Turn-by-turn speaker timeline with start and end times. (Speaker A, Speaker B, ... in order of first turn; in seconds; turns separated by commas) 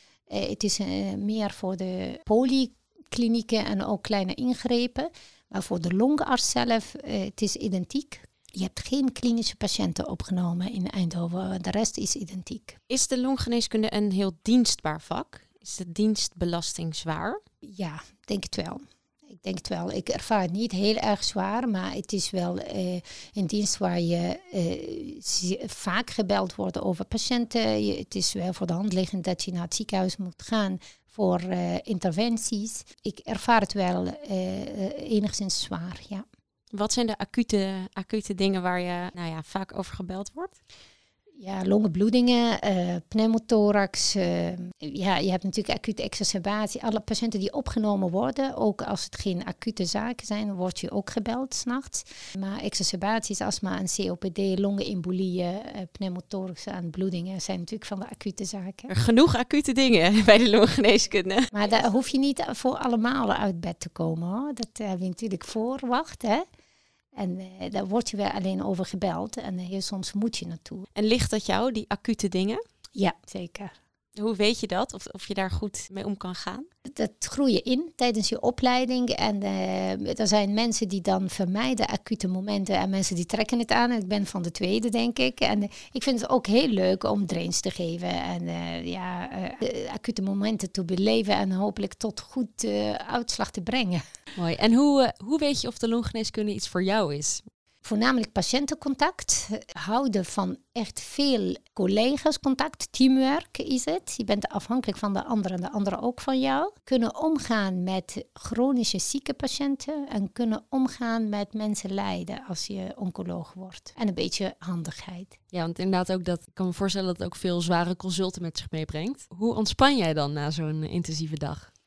Speaker A: 0.3-12.8, Speaker B: 12.9-17.4, Speaker A: 17.6-36.2, Speaker B: 36.7-40.6, Speaker A: 41.4-58.9, Speaker B: 58.9-61.5, Speaker A: 61.5-66.5, Speaker A: 67.2-70.9, Speaker B: 71.0-72.6, Speaker A: 72.9-73.7, Speaker B: 74.2-76.7, Speaker A: 76.9-94.0, Speaker C: 94.3-97.5, Speaker A: 97.8-115.4, Speaker C: 115.5-121.7